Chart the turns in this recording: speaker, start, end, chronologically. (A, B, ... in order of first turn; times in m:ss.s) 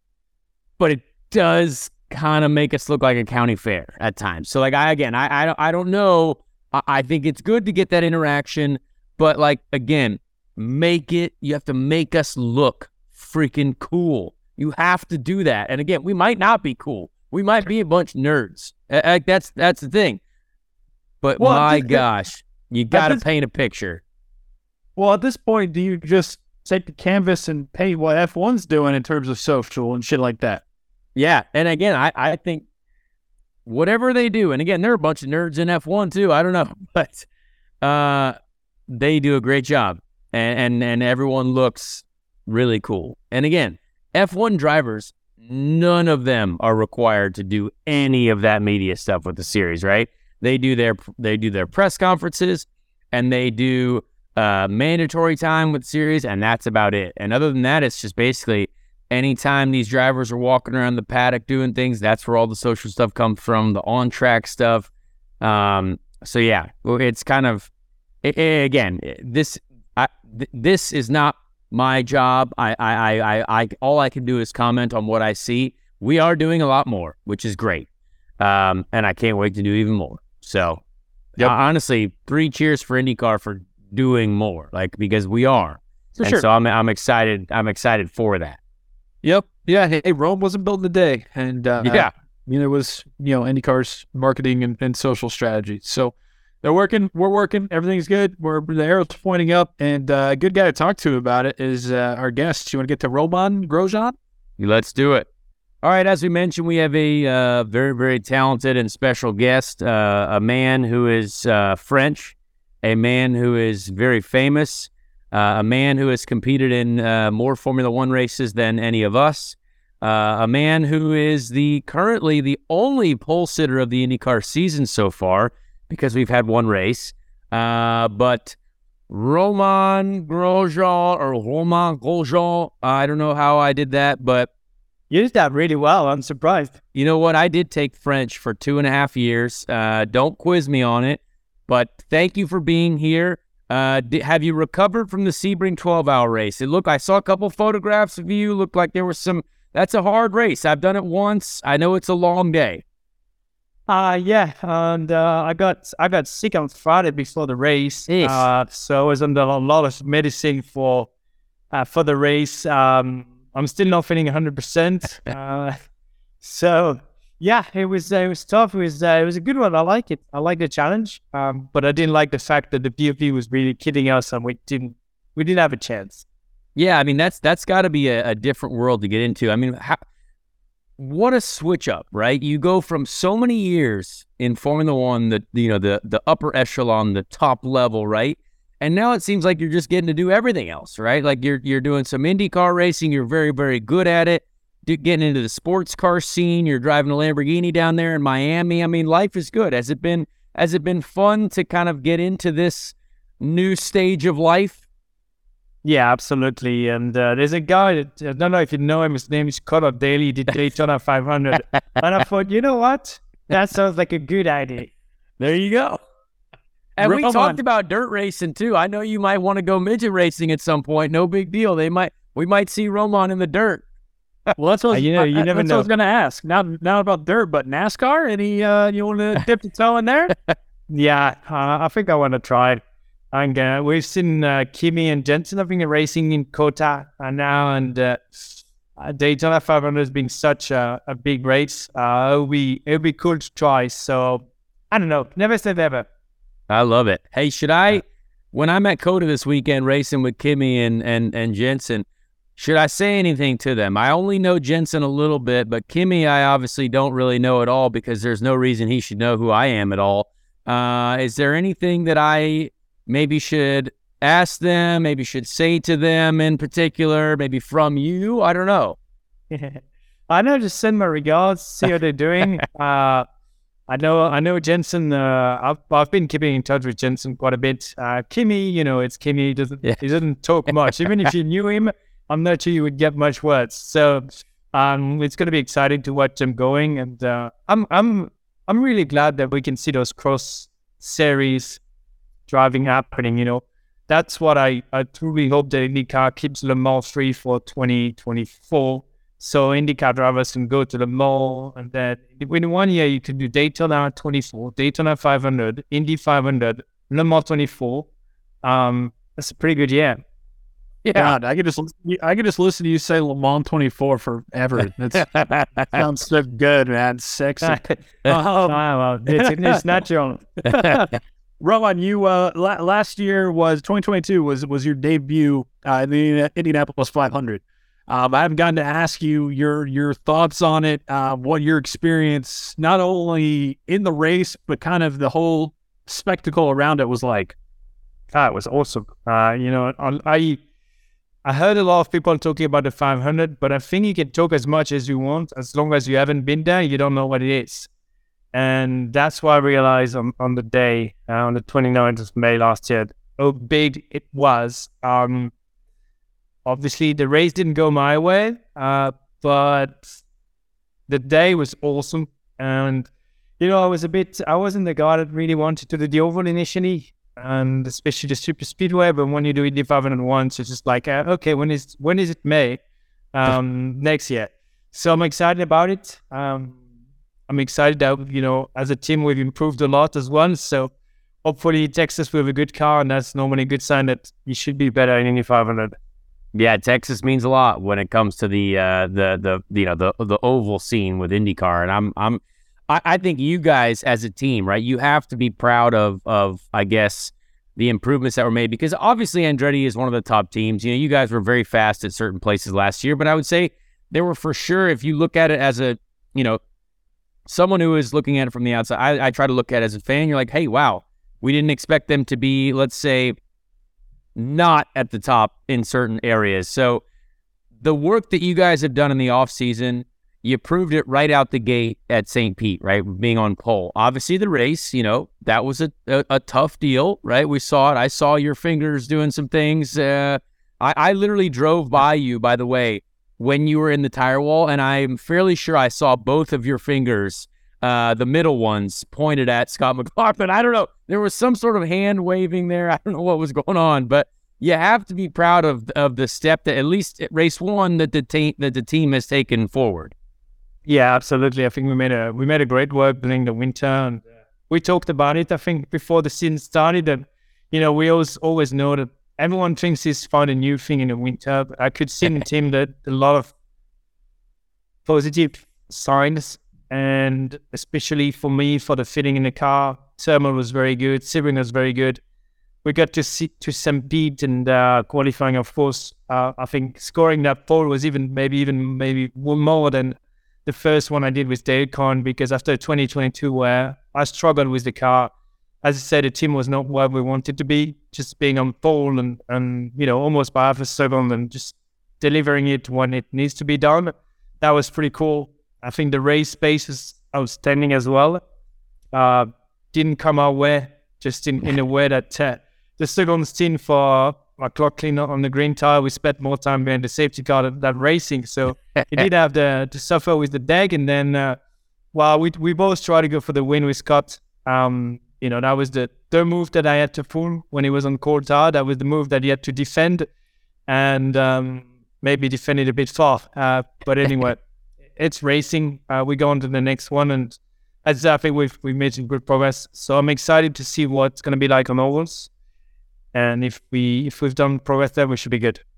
0:00.8-0:20.2 A
0:21.2-0:24.0 A
0:21.4-0:22.0 B
0:22.9-0:23.2 B
0:25.0-0:30.6 B
0:31.2-0:32.6 A
0:33.7-0:37.3 A
0:37.8-0:38.4 A
0:38.9-1:04.9 A
1:05.4-1:07.7 A
1:08.2-1:17.9 A
1:18.4-1:20.8 A
1:21.4-1:28.6 A
1:26.2-1:26.5 B
1:29.2-1:44.2 B
1:31.8-1:32.1 A
1:44.6-1:45.3 A
1:45.8-2:08.6 A
2:09.1-2:14.5 A
2:15.1-2:16.8 C
2:16.9-2:32.8 A
2:33.9-2:41.1 C
2:38.1-2:38.5 A
2:41.7-2:45.8 C
2:46.4-2:56.2 C
2:56.8-3:00.0 A
3:01.0-3:24.8 A
3:25.8-3:34.9 C
3:35.4-3:36.0 A
3:37.0-3:43.8 A
3:37.0-3:37.6 B
3:44.6-3:50.3 B
3:44.9-3:45.9 C
3:50.9-3:52.8 C
3:53.3-4:06.1 C
4:06.7-4:12.0 A
4:12.6-4:29.0 A
4:29.5-4:33.3 C
4:33.9-4:51.8 C
4:52.5-5:08.1 C
5:08.6-5:10.2 C
5:11.0-5:11.4 A
5:11.2-5:15.3 B
5:15.1-5:16.0 A
5:15.9-5:19.8 B
5:17.6-5:18.2 C
5:18.7-5:21.0 C
5:20.7-5:21.1 A
5:21.6-5:37.6 B
5:38.3-5:40.6 C
5:41.4-5:47.9 C
5:48.5-5:55.5 C
5:56.7-6:00.2 C
6:01.1-6:12.8 C
6:13.3-6:16.8 C
6:17.5-6:20.9 C
6:21.4-6:26.0 C
6:26.6-6:46.6 A
6:47.5-6:53.4 A
6:54.4-6:57.0 A
6:57.8-7:30.1 A
7:30.9-7:43.5 C
7:45.1-7:52.2 C
7:52.8-8:05.3 C
8:05.8-8:18.4 C
8:19.1-8:31.6 C
8:32.1-8:40.3 C
8:40.9-8:44.6 C
8:45.2-8:52.5 C
8:53.3-8:55.8 C